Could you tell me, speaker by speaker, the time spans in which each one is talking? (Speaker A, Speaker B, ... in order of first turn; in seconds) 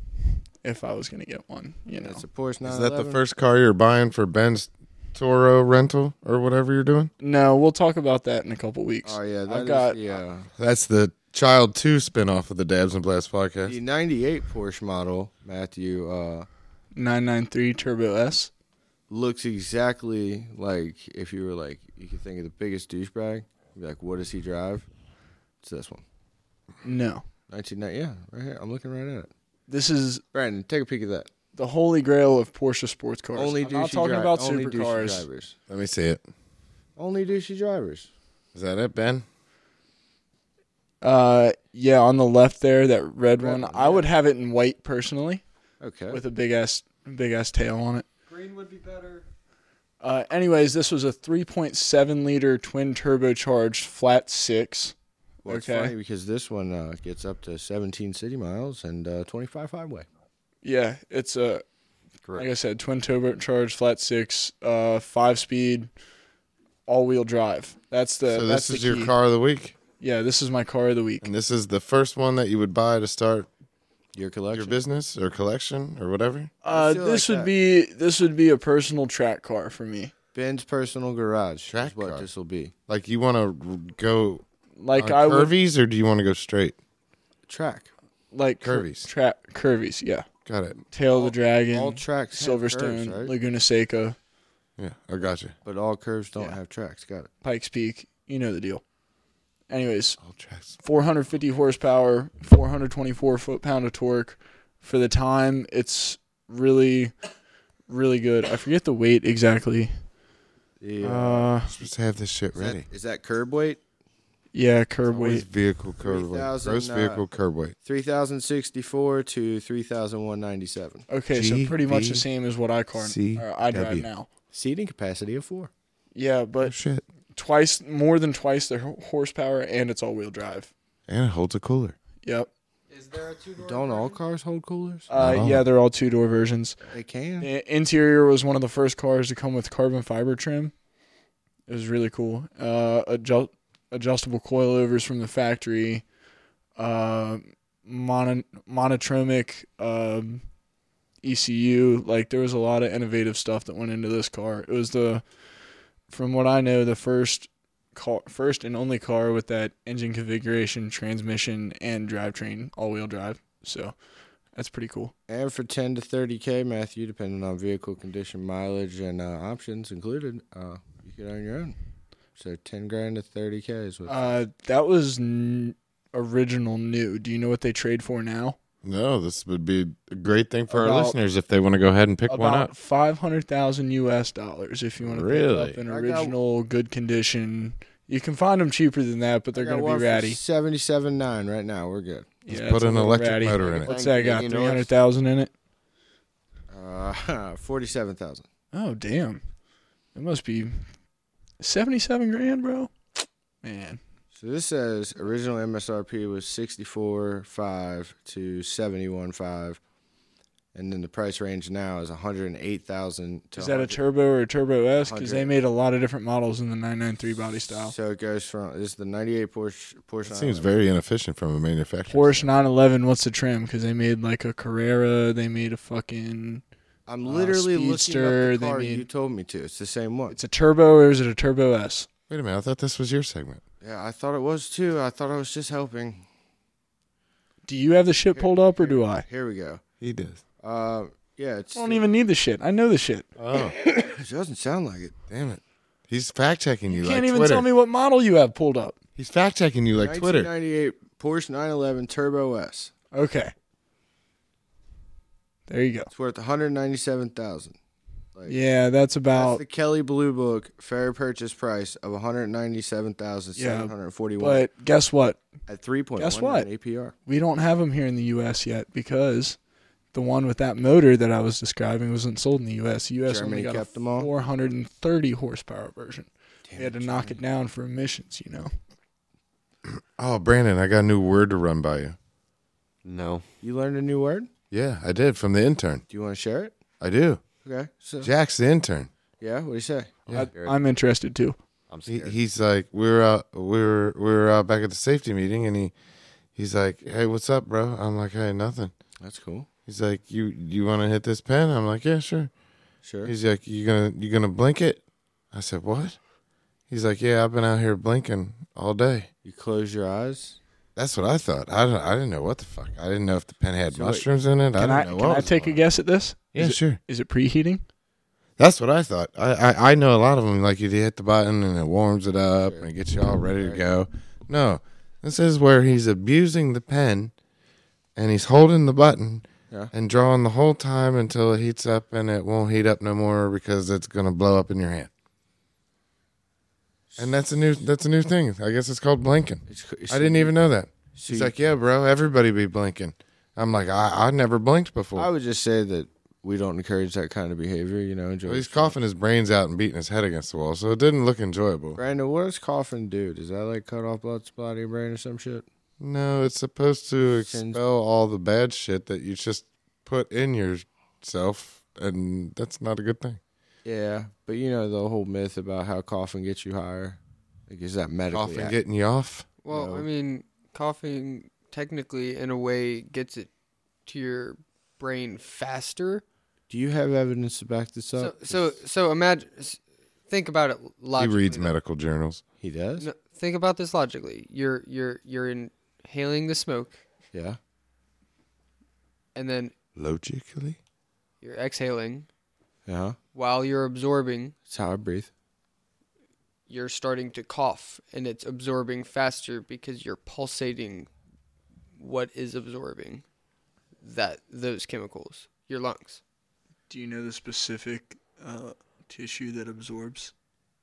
Speaker A: 0.6-2.2, 7.2-10.0, 16.9-18.5, 26.8-27.2, 29.7-30.2, 31.5-35.2, 41.0-45.4, 46.1-48.1, 50.0-54.9, 55.5-55.9, 60.6-61.6, 62.3-65.9, 66.8-69.1, 70.0-71.3, 76.6-80.1, 84.8-85.5, 88.3-90.2, 90.9-94.2, 97.4-98.8, 99.7-100.2, 100.8-107.1, 107.9-109.9, 111.0-111.7, 114.5-115.5, 121.1-124.3, 126.1-126.7, 127.3-130.7, 132.2-132.5, 135.1-136.8, 137.4-140.7, 141.7-146.0, 146.8-150.4, 151.2-155.2, 156.1-163.9, 164.5-165.1, 174.1-178.6, 180.7-181.2, 182.3-190.4, 192.4-195.5, 198.7-199.4, 200.1-200.9, 201.6-204.0, 213.6-217.9, 222.1-226.6, 227.2-229.1, 230.3-232.1, 237.7-239.2, 241.8-243.2, 246.9-248.9, 253.1-253.5, 255.7-256.1, 258.5-259.6, 263.6-265.4, 266.2-266.7, 267.2-269.6, 270.1-278.7, 290.3-291.6, 314.8-317.8, 406.9-410.3
Speaker B: 2.0-3.2, 9.0-10.5, 13.7-16.5, 19.1-24.9, 25.6-26.0, 27.5-29.3, 30.3-31.3, 33.3-35.5, 37.0-38.1, 43.4-44.1, 45.8-46.2, 55.4-60.0, 74.1-74.8, 76.7-77.5, 80.3-82.7, 87.5-87.9, 91.1-93.3, 95.6-97.3, 110.8-111.5, 112.5-113.8, 116.0-117.2, 117.8-121.0, 124.5-125.7, 133.6-135.1, 136.9-137.5, 165.3-171.8, 172.3-174.4, 185.9-186.3, 189.5-192.3, 196.7-198.4, 204.3-209.8, 210.7-214.0, 215.0-215.5, 217.7-220.7, 227.1-230.4, 233.8-236.2, 238.3-239.8, 240.6-242.1, 243.8-245.1, 250.0-252.9, 256.1-257.8, 258.3-258.6, 259.3-264.7, 265.7-267.1, 273.2-274.3, 276.7-277.4, 283.6-284.5, 286.1-286.7, 287.6-288.3, 289.4-290.2, 299.2-299.7, 303.0-303.3, 309.4-310.6, 313.9-314.3, 315.5-315.8, 322.6-322.9, 323.6-323.9, 337.1-337.4, 339.7-340.5, 341.1-341.5, 345.1-348.9, 351.9-355.6, 357.4-357.8, 363.8-368.8, 369.7-370.1, 376.7-378.8, 382.6-383.1, 387.3-387.6, 392.9-393.2, 394.7-395.3
Speaker C: 2.6-7.1, 10.6-13.8, 35.7-36.2, 38.5-39.2, 68.3-69.8, 71.2-73.5, 74.5-76.5, 81.7-82.3, 82.9-86.8, 88.6-89.1, 90.5-90.8, 94.8-95.5, 100.2-100.8, 111.7-112.8, 115.1-117.7, 121.3-122.2, 122.9-124.1, 126.6-127.0, 131.1-131.9, 135.2-135.6, 178.8-182.7, 185.0-185.8, 192.5-193.9, 220.2-222.5, 232.3-233.6, 240.0-240.4, 243.4-243.7, 245.3-247.6, 249.2-250.5, 279.9-282.1, 284.7-286.0, 287.0-287.4, 288.2-289.1, 292.1-295.9, 296.5-298.9, 299.9-302.5, 303.2-305.0, 305.5-306.2, 306.9-309.3, 310.9-315.8, 316.5-317.0, 318.6-327.3, 328.1-335.1, 337.2-345.3, 348.5-352.0, 356.0-363.4, 368.3-369.5, 381.1-382.4, 389.9-390.8
Speaker D: 48.3-49.2, 132.9-134.2, 369.6-373.5, 374.1-376.2, 378.2-381.7, 383.0-387.0, 389.3-389.7, 391.4-392.3, 393.3-394.5, 396.7-401.1, 402.0-403.2, 404.0-406.2
Speaker E: 193.7-194.9, 283.0-283.4, 291.9-292.4